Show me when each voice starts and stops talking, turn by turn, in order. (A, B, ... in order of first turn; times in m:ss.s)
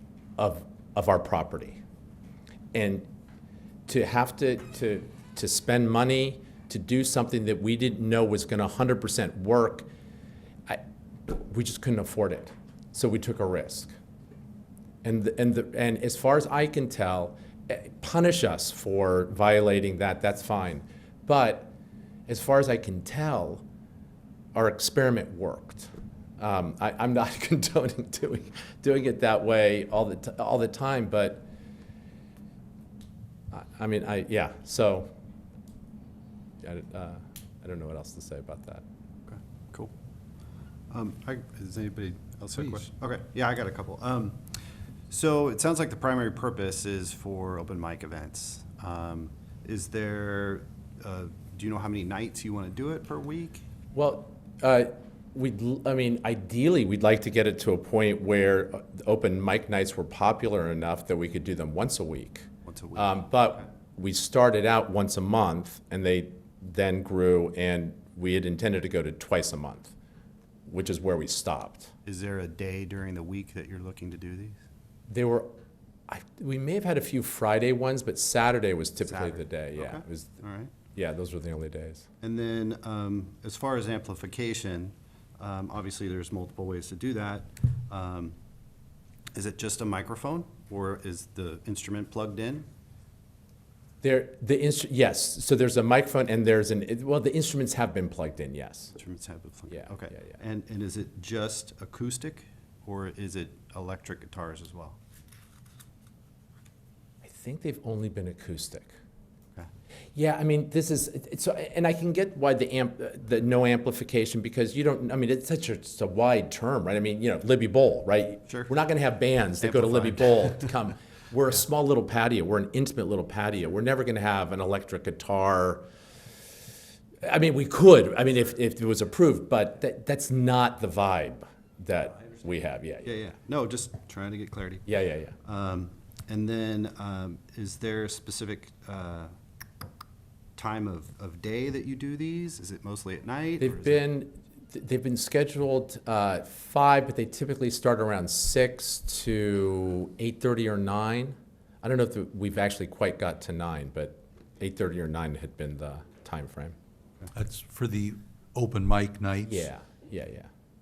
0:00.4-0:01.8 A
0:02.7-0:03.1 A
0:03.9-0:09.9 A
0:10.7-0:13.9 A
0:15.0-0:21.7 A
0:22.3-0:23.6 A
0:24.5-0:31.5 A
0:33.5-0:35.1 A
0:36.6-0:38.8 A
0:39.3-0:39.9 B
0:40.9-0:44.5 B
0:45.1-0:53.6 B
0:53.9-1:09.9 A
1:02.6-1:03.6 B
1:10.7-1:11.9 A
1:12.0-1:14.6 B
1:15.1-1:15.5 A
1:16.1-1:20.4 A
1:19.0-1:20.8 B
1:20.9-1:22.0 A
1:22.2-1:28.3 B
1:29.3-1:32.7 B
1:34.0-1:38.9 A
1:38.9-1:45.0 B
1:39.7-1:40.3 A
1:47.2-1:49.0 A
1:50.1-2:05.8 A
1:58.5-1:58.8 B
1:59.6-2:00.7 B
2:07.2-2:13.2 A
2:13.0-2:14.9 B
2:14.9-2:15.3 A
2:15.4-2:19.3 B
2:20.6-2:24.1 B
2:23.6-2:36.7 A
2:37.3-2:39.7 C
2:39.5-2:40.5 A